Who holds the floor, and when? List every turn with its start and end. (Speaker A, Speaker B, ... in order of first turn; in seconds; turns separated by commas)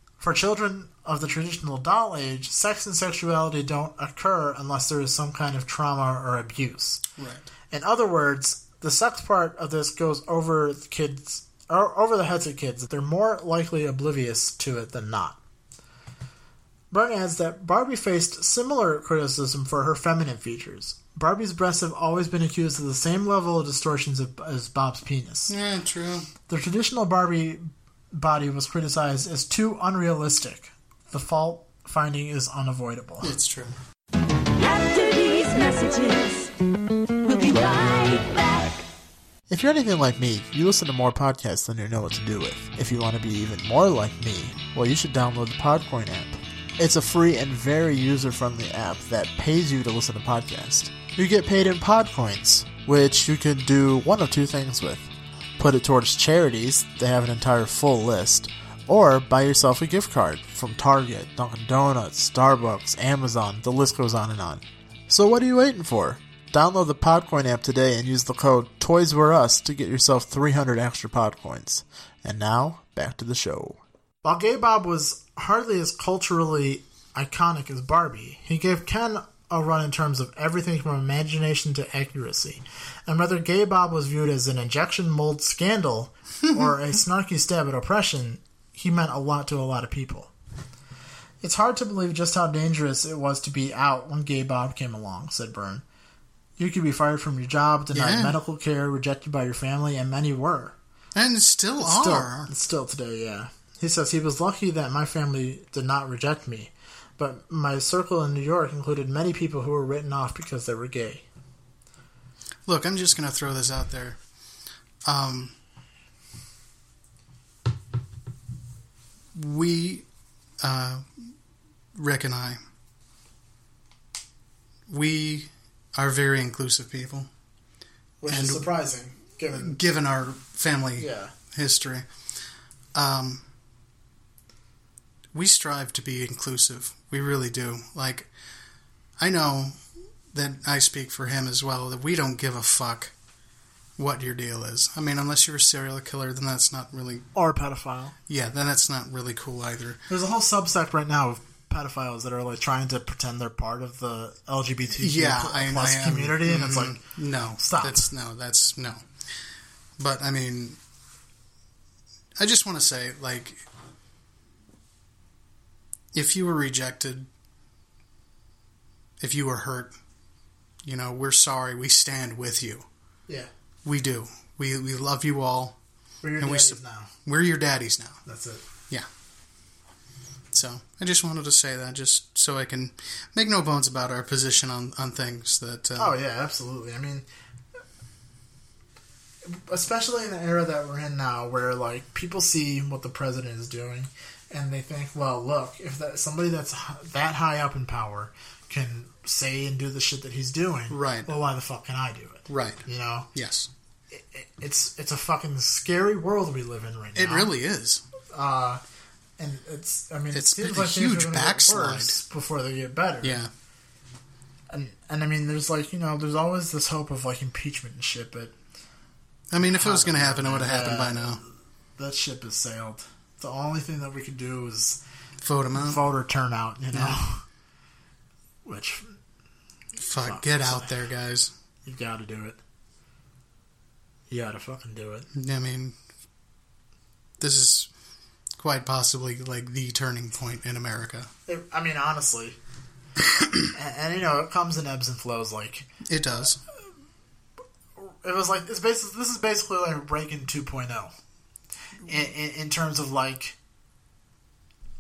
Speaker A: 0.2-7.0, Speaker B: 7.2-7.5, Speaker A: 7.7-15.4, Speaker A: 16.9-25.5, Speaker B: 25.5-26.3, Speaker A: 26.5-33.3, Speaker B: 33.2-33.8, Speaker C: 34.6-36.5, Speaker C: 37.3-38.6, Speaker A: 39.5-90.3, Speaker A: 91.4-95.8, Speaker A: 96.6-100.8, Speaker B: 97.9-98.4, Speaker B: 101.2-102.5, Speaker A: 101.8-111.2, Speaker B: 112.7-114.2, Speaker B: 115.0-115.5, Speaker B: 119.3-120.1, Speaker B: 120.6-121.3, Speaker B: 122.0-122.6, Speaker B: 124.9-127.3, Speaker A: 128.2-129.8, Speaker B: 128.3-128.7, Speaker B: 129.5-132.1, Speaker A: 131.0-131.3, Speaker B: 132.9-133.4, Speaker B: 135.3-138.3, Speaker B: 139.2-143.1, Speaker B: 144.0-147.3, Speaker A: 147.3-148.2, Speaker B: 148.3-150.0, Speaker A: 150.1-157.0, Speaker B: 155.0-160.8, Speaker A: 157.6-158.1, Speaker B: 162.4-163.7, Speaker B: 166.1-167.3, Speaker B: 169.2-170.0, Speaker B: 170.8-172.9, Speaker B: 173.8-175.8, Speaker A: 176.2-177.1, Speaker B: 176.4-178.2, Speaker A: 178.3-178.6, Speaker B: 180.5-186.2, Speaker A: 186.0-187.3, Speaker A: 189.5-203.3, Speaker B: 200.9-201.3, Speaker B: 202.5-203.7, Speaker A: 204.1-207.5, Speaker B: 207.2-208.1, Speaker A: 208.3-208.8, Speaker A: 209.4-213.4, Speaker B: 210.3-212.2, Speaker B: 213.2-213.5, Speaker A: 214.7-218.5, Speaker B: 219.5-221.4, Speaker A: 219.7-221.4, Speaker A: 222.0-225.0, Speaker B: 225.4-226.0, Speaker A: 225.7-227.4, Speaker B: 226.9-227.2, Speaker A: 228.7-229.2, Speaker B: 230.0-231.5, Speaker A: 230.2-231.0, Speaker A: 231.8-232.6, Speaker A: 234.3-235.3, Speaker B: 235.3-236.0, Speaker B: 237.4-237.9, Speaker B: 238.6-241.3, Speaker A: 241.5-242.6, Speaker B: 243.2-243.6, Speaker A: 243.7-245.9, Speaker B: 246.0-246.6, Speaker A: 248.0-251.1, Speaker A: 252.1-253.6